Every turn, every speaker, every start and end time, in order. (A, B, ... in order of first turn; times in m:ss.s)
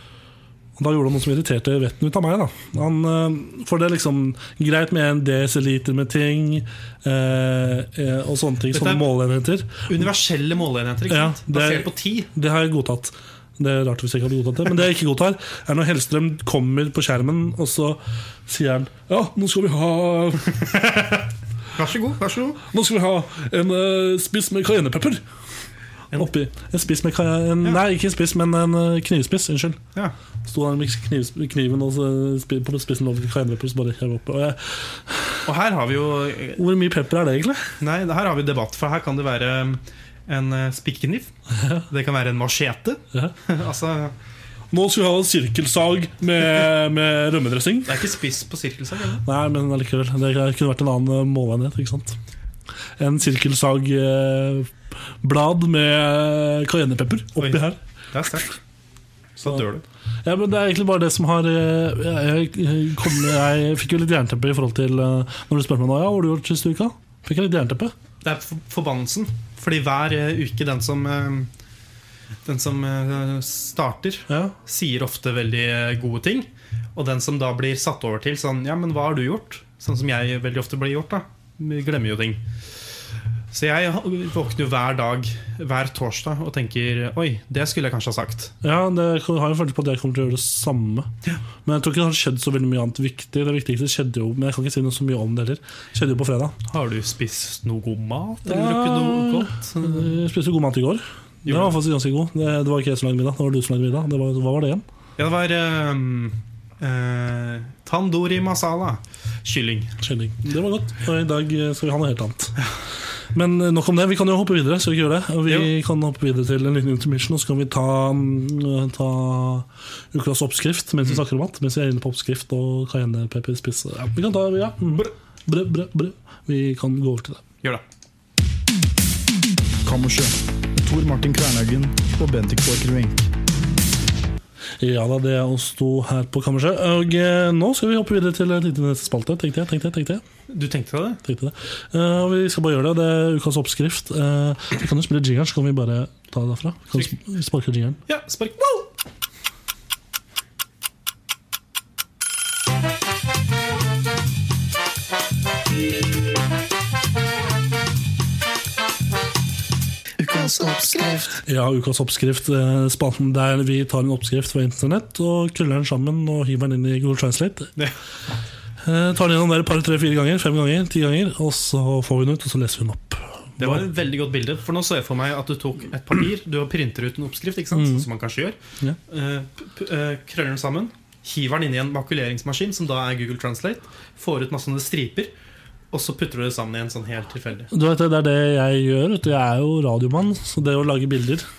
0:00.8-0:09.9 A
0:08.7-0:09.0 B
0:09.9-0:12.3 B
0:11.1-0:20.7 A
0:20.6-0:22.6 B
0:22.6-0:25.2 A
0:26.1-0:29.8 A
0:30.4-0:35.4 A
0:35.4-0:36.6 B
0:36.6-0:37.7 A
0:37.8-0:41.3 B
0:41.5-0:41.8 A
0:41.9-0:44.1 B
0:44.7-0:48.0 A
0:47.8-0:49.2 B
0:49.2-0:52.2 A
0:53.0-0:57.8 A
0:57.4-0:58.5 B
0:59.4-0:59.8 B
1:00.2-1:07.9 A
1:08.2-1:11.5 B
1:12.4-1:22.4 B
1:14.3-1:14.5 A
1:23.5-1:28.5 B
1:28.6-1:31.1 A
1:31.6-1:36.6 A
1:36.6-1:40.2 B
1:38.4-1:44.8 A
1:41.4-1:41.8 B
1:45.2-1:49.9 B
1:50.0-1:52.6 A
1:53.3-2:07.4 A
2:09.8-2:13.3 C
2:14.8-2:20.2 A
2:20.5-2:21.2 B
2:21.2-2:28.0 A
2:28.1-2:28.9 B
2:40.2-2:41.2 B
2:41.4-2:47.7 A
2:48.8-2:53.9 A
2:53.6-2:58.6 B
2:57.7-2:58.1 A
2:59.1-3:05.3 B
3:05.9-3:07.7 B
3:07.7-3:11.5 A